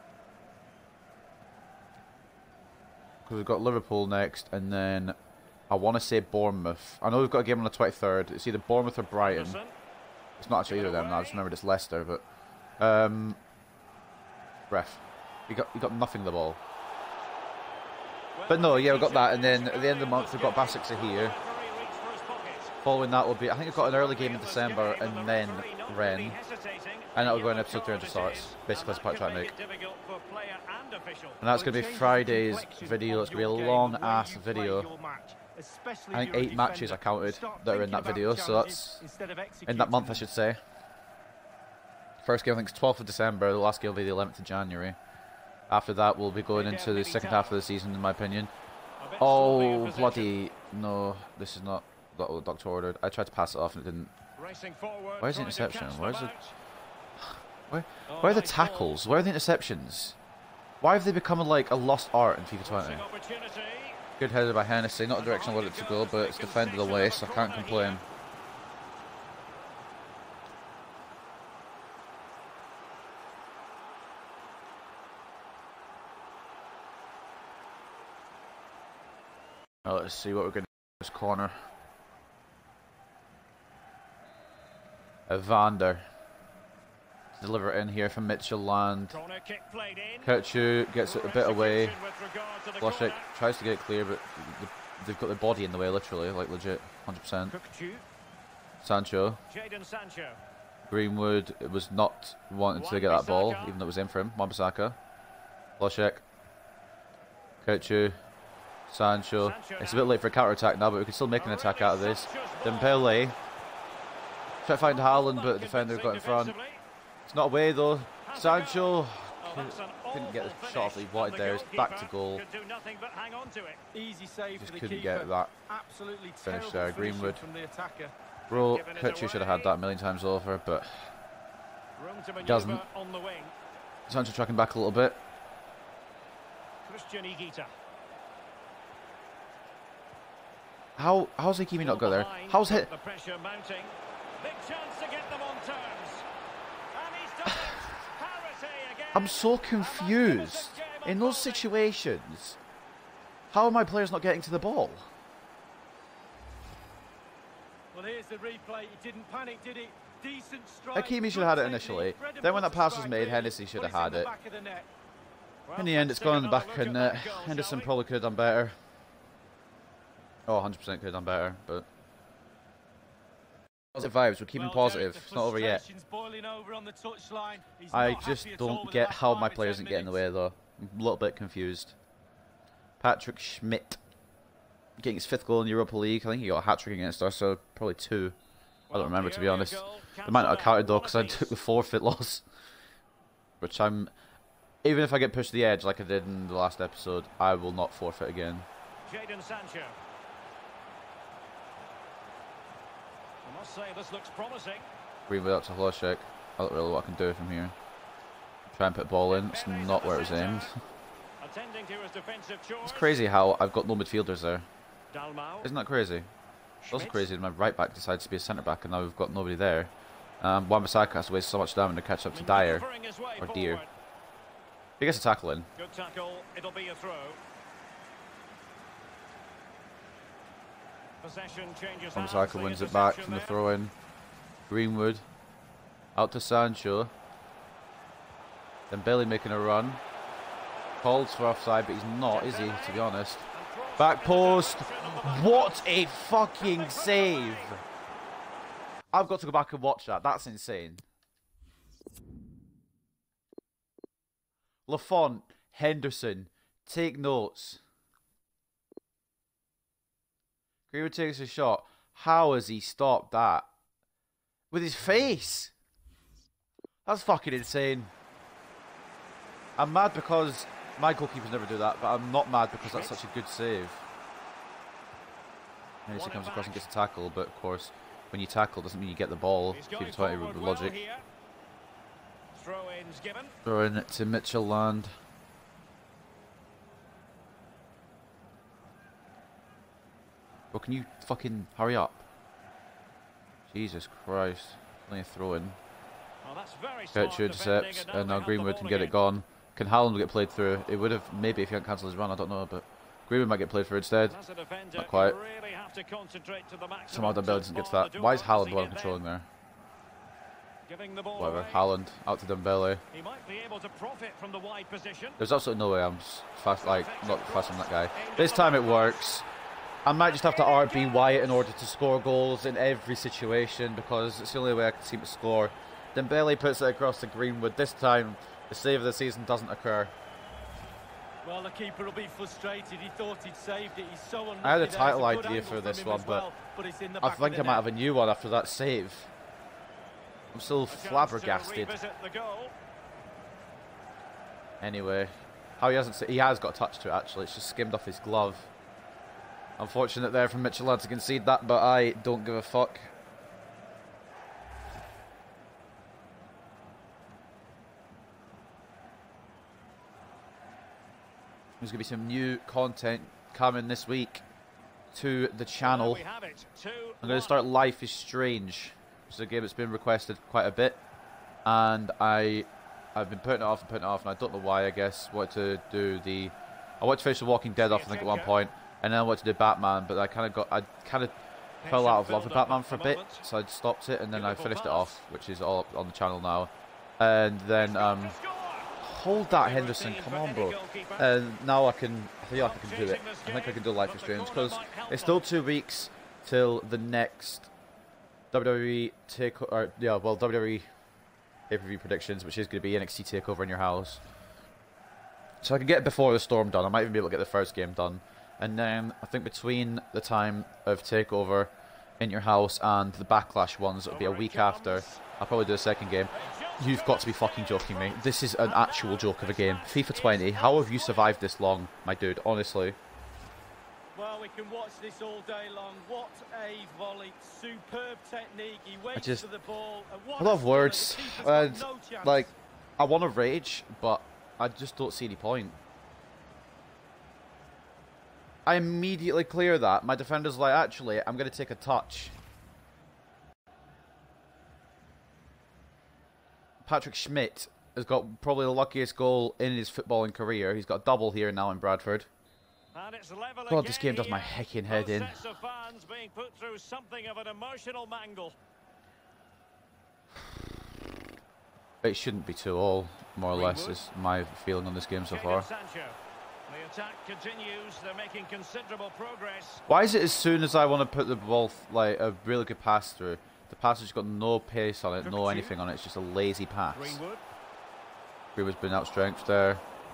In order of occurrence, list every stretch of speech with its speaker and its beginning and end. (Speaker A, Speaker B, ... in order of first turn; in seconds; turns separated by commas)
Speaker A: 3.2-5.2, Speaker A: 5.7-9.6, Speaker B: 9.2-9.7, Speaker A: 10.4-12.2, Speaker B: 10.7-11.4, Speaker A: 12.8-13.4, Speaker A: 14.7-16.6, Speaker B: 18.4-22.7, Speaker A: 18.5-21.3, Speaker A: 22.8-26.4, Speaker B: 23.7-31.4, Speaker A: 27.1-29.5, Speaker A: 31.4-34.9, Speaker C: 31.5-40.3, Speaker A: 36.1-39.0, Speaker A: 39.6-40.6, Speaker A: 42.2-45.0, Speaker A: 45.7-48.5, Speaker B: 46.5-47.6, Speaker B: 49.0-50.3, Speaker A: 49.2-54.1, Speaker B: 54.4-56.5, Speaker A: 55.2-56.3, Speaker A: 57.2-60.1, Speaker B: 58.1-59.0, Speaker A: 60.8-63.0, Speaker B: 62.6-64.0, Speaker A: 64.2-68.0, Speaker B: 65.2-68.0, Speaker A: 79.8-81.5, Speaker A: 85.3-86.0, Speaker A: 87.3-89.2, Speaker B: 89.1-90.3, Speaker A: 90.2-91.9, Speaker B: 91.0-93.3, Speaker A: 92.8-97.5, Speaker B: 97.5-98.0, Speaker A: 98.8-99.4, Speaker B: 99.5-100.4, Speaker A: 100.9-105.0, Speaker B: 102.7-103.7, Speaker A: 105.8-106.2, Speaker A: 107.6-108.2, Speaker A: 108.9-113.3, Speaker B: 109.4-110.2, Speaker B: 111.3-113.2, Speaker A: 114.6-116.5, Speaker B: 114.8-116.8, Speaker A: 117.3-122.4, Speaker B: 118.2-123.8, Speaker C: 123.9-128.1, Speaker A: 124.6-125.5, Speaker A: 126.5-127.4, Speaker A: 128.5-131.1, Speaker B: 128.5-129.7, Speaker B: 132.0-133.5, Speaker A: 132.4-132.8, Speaker A: 134.1-135.2, Speaker B: 136.8-137.7, Speaker A: 141.0-142.9, Speaker B: 141.8-146.2, Speaker B: 146.9-151.7, Speaker A: 149.1-152.6, Speaker A: 153.5-155.1, Speaker C: 157.9-164.9, Speaker A: 160.9-164.3, Speaker B: 165.7-167.9, Speaker A: 165.8-168.8, Speaker A: 170.4-171.8, Speaker A: 173.9-175.8, Speaker C: 174.5-180.2, Speaker A: 177.9-181.9, Speaker A: 183.0-184.0, Speaker A: 185.0-188.3, Speaker B: 188.9-191.6, Speaker A: 188.9-192.4, Speaker A: 193.6-194.1, Speaker A: 194.8-198.7, Speaker B: 199.1-199.9, Speaker B: 203.4-204.9, Speaker A: 205.3-207.7, Speaker A: 208.7-210.7, Speaker B: 209.3-210.7, Speaker B: 211.4-213.1, Speaker A: 212.8-214.7, Speaker B: 215.1-215.7, Speaker A: 215.6-216.3, Speaker B: 216.8-217.3, Speaker A: 216.9-222.8, Speaker B: 222.3-223.9, Speaker A: 223.4-223.8, Speaker A: 225.0-225.7, Speaker B: 225.8-227.4, Speaker B: 231.2-233.6, Speaker A: 232.1-233.9, Speaker A: 234.7-235.2, Speaker A: 236.1-237.1, Speaker A: 238.9-240.0, Speaker A: 241.0-243.4, Speaker B: 242.3-245.9, Speaker A: 244.0-247.8, Speaker B: 246.6-247.7, Speaker A: 249.1-251.0, Speaker A: 254.9-257.8, Speaker A: 260.9-263.7, Speaker A: 264.7-265.7, Speaker A: 267.0-268.1, Speaker A: 269.8-274.0, Speaker B: 272.8-273.2, Speaker A: 276.1-281.0, Speaker B: 276.1-276.8, Speaker B: 279.7-281.2, Speaker B: 282.5-283.5, Speaker A: 283.6-285.1, Speaker A: 290.7-292.2, Speaker A: 293.7-295.8, Speaker B: 296.4-299.1, Speaker A: 297.1-304.4, Speaker B: 304.3-309.2, Speaker A: 304.9-305.4, Speaker A: 307.1-309.5, Speaker B: 310.9-311.8, Speaker A: 311.3-313.0, Speaker B: 313.1-315.4, Speaker A: 315.4-319.4, Speaker B: 316.8-319.3, Speaker A: 320.0-330.1, Speaker B: 320.2-321.6, Speaker C: 331.4-337.9, Speaker A: 334.6-336.5, Speaker A: 337.2-339.3, Speaker A: 340.5-342.0, Speaker B: 340.9-342.7, Speaker A: 344.8-348.7, Speaker A: 349.8-353.1, Speaker A: 361.8-364.4, Speaker A: 365.1-366.2, Speaker B: 365.8-367.6, Speaker A: 367.2-371.0, Speaker A: 371.6-388.4, Speaker B: 377.8-378.6, Speaker B: 381.8-383.4, Speaker B: 384.3-385.2, Speaker B: 387.8-388.9, Speaker A: 389.0-397.7, Speaker B: 389.5-391.3, Speaker B: 392.6-395.4, Speaker A: 398.5-400.9, Speaker A: 401.7-404.2, Speaker A: 405.6-423.0, Speaker B: 414.1-415.2, Speaker B: 416.3-421.4, Speaker C: 424.1-432.5, Speaker A: 429.1-429.5, Speaker A: 430.4-435.8, Speaker A: 438.6-442.3, Speaker A: 446.8-452.3, Speaker B: 452.9-458.6, Speaker A: 453.7-455.4, Speaker A: 462.0-465.7, Speaker B: 463.5-464.0, Speaker B: 465.3-469.8, Speaker A: 469.9-477.2, Speaker B: 475.2-475.7, Speaker B: 476.9-477.4, Speaker A: 478.6-479.8